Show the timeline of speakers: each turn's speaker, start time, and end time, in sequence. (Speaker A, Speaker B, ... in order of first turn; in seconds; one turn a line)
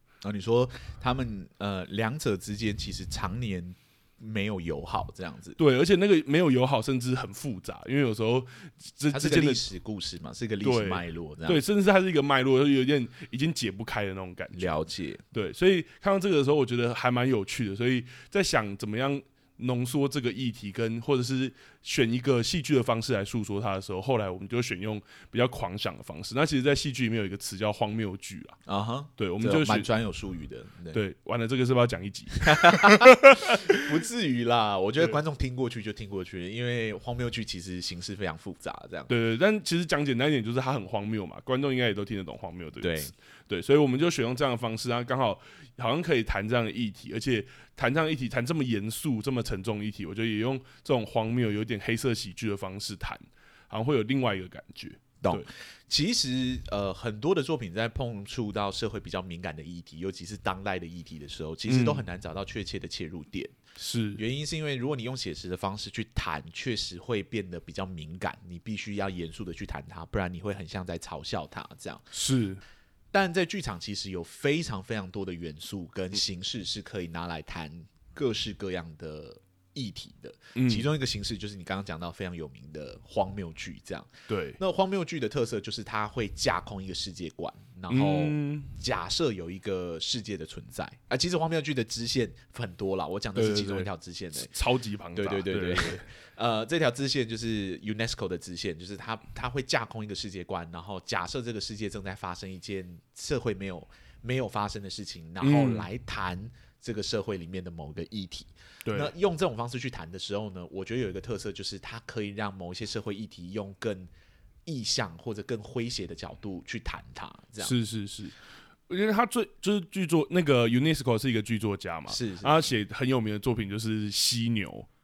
Speaker A: 0.2-5.6
Speaker B: 5.6-9.6
Speaker A: 9.1-11.6
Speaker B: 10.6-14.7
Speaker A: 14.6-15.2
Speaker B: 15.3-28.6
Speaker A: 28.7-31.0
Speaker B: 29.2-29.9
Speaker B: 30.9-33.8
Speaker A: 32.4-39.1
Speaker B: 39.1-55.5
Speaker A: 42.8-43.1
Speaker A: 55.2-63.5
Speaker B: 61.7-62.0
Speaker B: 63.8-64.2
Speaker A: 64.2-72.0
Speaker B: 72.1-72.6
Speaker A: 73.1-94.5
Speaker B: 80.5-80.9
Speaker B: 84.3-84.6
Speaker B: 87.9-88.7
Speaker B: 93.3-96.0
Speaker A: 95.2-114.1
Speaker B: 105.4-105.9
Speaker B: 108.9-109.1
Speaker A: 114.7-117.7
Speaker B: 117.6-118.3
Speaker B: 118.9-124.9
Speaker A: 122.1-122.7